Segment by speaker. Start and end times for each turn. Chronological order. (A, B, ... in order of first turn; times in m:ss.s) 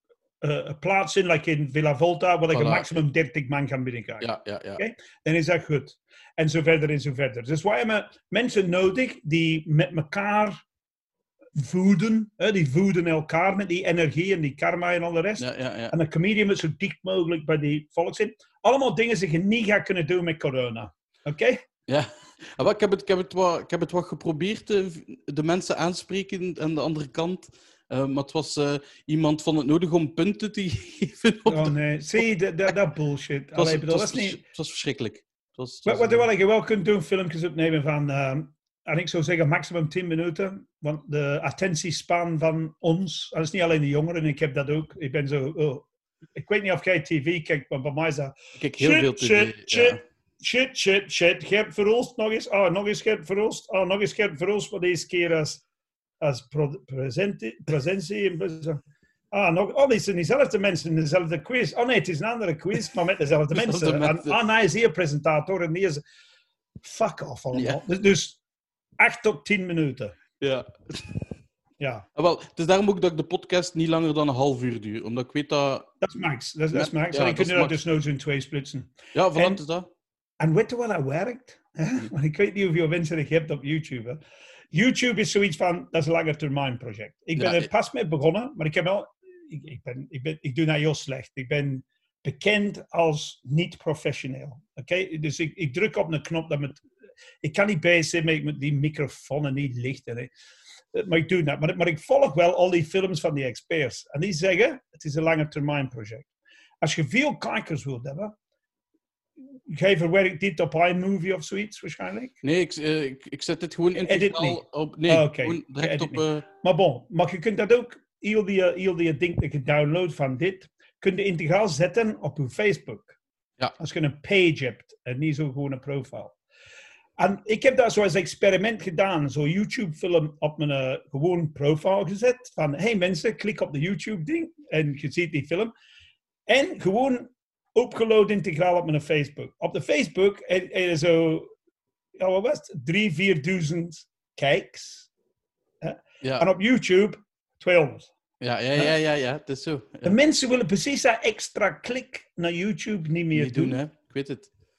0:00.4-0:10.6 A
0:02.5-0:02.9 B
0:04.2-0:04.8 B
0:11.6-0:21.6 A
0:15.4-0:15.9 B
0:21.9-0:32.2 B
0:31.5-0:34.4 A
0:33.6-0:36.2 B
0:35.8-0:55.6 A
0:48.6-0:50.0 B
0:56.2-0:58.8 A
0:59.3-1:06.0 A
1:03.5-1:04.4 B
1:06.8-1:08.4 A
1:07.5-1:07.8 B
1:09.0-1:10.2 A
1:10.4-1:11.3 B
1:11.8-1:12.1 A
1:12.2-1:15.9 B
1:16.0-1:19.6 A
1:16.7-1:17.8 B
1:19.1-1:19.9 B
1:20.4-1:24.2 A
1:24.7-1:36.8 A
1:27.4-1:27.7 B
1:37.4-1:40.3 A
1:40.9-1:46.3 A
1:46.8-1:48.3 A
1:49.7-1:52.3 A
1:52.4-1:56.4 B
1:53.9-2:03.2 A
2:03.8-2:06.4 A
2:07.2-2:15.7 A
2:16.5-2:21.5 A
2:22.2-2:25.1 A
2:25.8-2:28.1 A
2:26.2-2:26.5 B
2:28.4-2:30.1 B
2:30.0-2:33.8 A
2:33.3-2:34.5 B